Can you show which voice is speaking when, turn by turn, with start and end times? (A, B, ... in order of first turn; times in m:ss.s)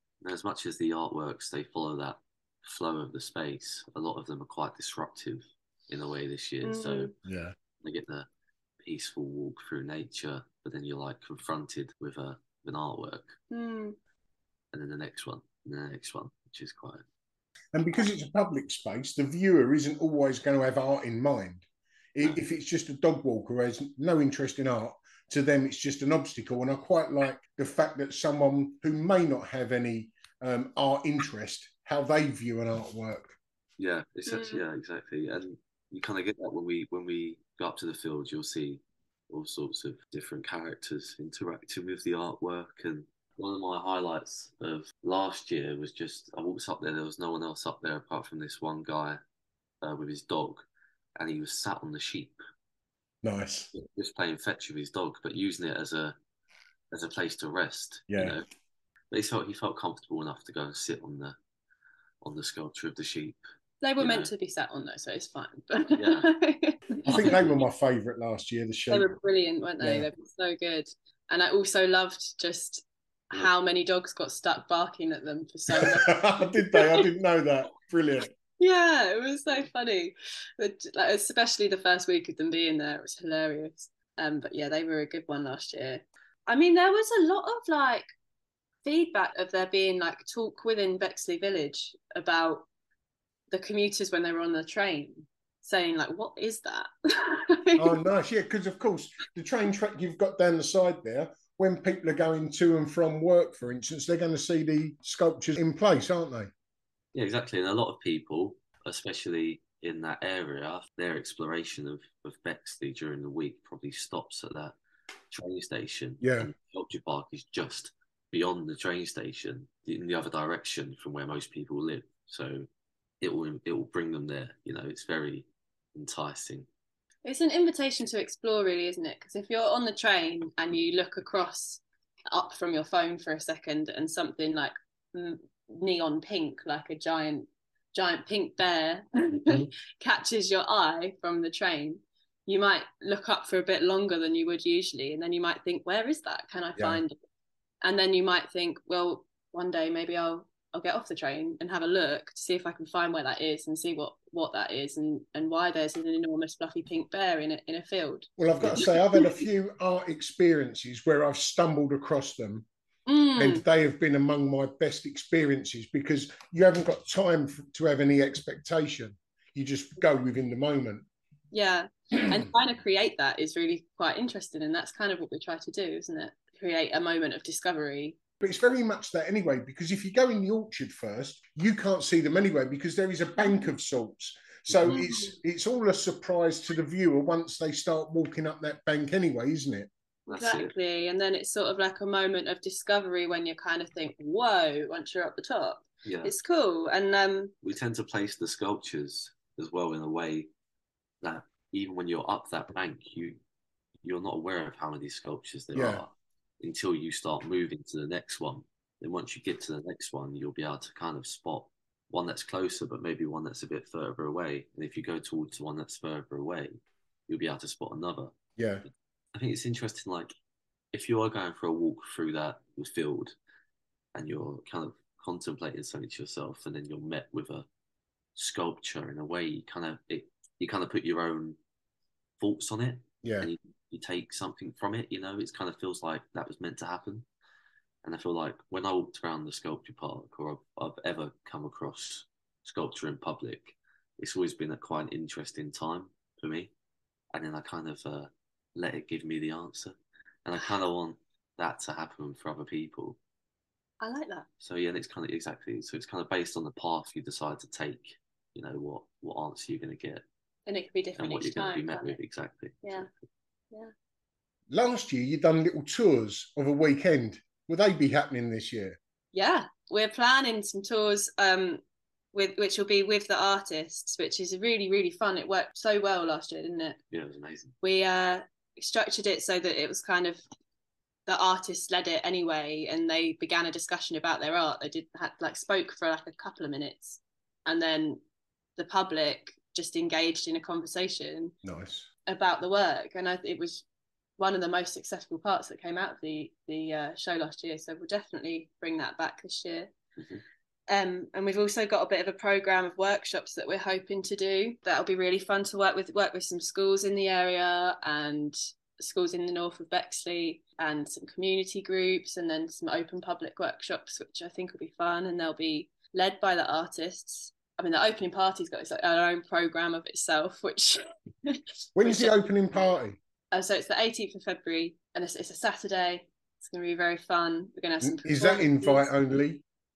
0:00.2-0:07.1 A
0:06.6-0:07.1 B
0:07.2-0:07.5 C
0:07.8-0:08.3 A
0:08.8-0:13.4 A
0:13.5-0:14.0 B
0:14.7-0:17.0 A
0:17.7-0:33.4 C
0:33.8-0:49.2 A
0:34.3-0:34.6 B
0:49.8-0:52.4 A
0:53.2-0:53.7 C
0:53.7-0:56.2 A
0:56.9-0:58.4 A
0:58.1-0:58.4 C
0:59.1-1:01.4 A
1:02.2-1:03.4 A
1:03.8-1:07.4 B
1:04.0-1:04.3 A
1:06.0-1:06.3 A
1:07.0-1:09.1 C
1:07.1-1:07.6 A
1:08.9-1:17.0 B
1:09.8-1:10.0 C
1:15.7-1:18.3 C
1:18.6-1:28.1 B
1:28.8-1:32.6 B
1:33.5-1:38.0 B
1:37.8-1:46.5 C
1:47.1-1:54.7 A
1:55.3-2:02.7 A
1:56.2-1:56.5 C
2:03.2-2:06.7 A
2:07.2-2:27.2 B
2:26.8-2:27.0 C
2:27.8-2:39.4 B
2:38.4-2:42.6 C
2:43.1-2:43.6 B
2:43.4-2:51.0 C
2:51.5-2:58.2 B
2:58.4-3:09.9 C
3:04.9-3:05.3 B
3:10.3-3:10.7 A
3:10.3-3:17.5 B
3:16.0-3:16.3 A
3:17.6-3:20.5 A
3:21.2-3:23.4 A
3:24.0-3:38.3 A
3:25.7-3:26.0 C
3:38.6-3:38.8 C
3:39.3-3:40.3 A
3:40.9-3:43.3 A
3:44.1-3:47.6 A
3:48.4-3:51.6 A
3:52.4-3:57.2 A
3:53.2-3:53.5 C
3:58.0-4:06.7 A
4:07.3-4:13.2 A
4:14.0-4:14.4 B
4:14.6-4:20.2 A
4:20.7-4:22.2 B
4:21.2-4:23.1 A
4:22.8-4:23.1 B
4:24.7-4:29.0 C
4:29.3-4:31.8 B
4:32.3-4:37.0 B
4:37.1-4:37.7 A
4:37.8-4:40.4 B
4:41.3-4:48.2 B
4:48.8-4:51.5 B
4:51.6-4:52.1 C
4:52.3-4:53.8 B
4:54.4-4:59.9 B
5:00.9-5:22.9 B
5:21.9-5:23.2 C
5:23.5-5:29.1 B
5:28.0-5:29.6 C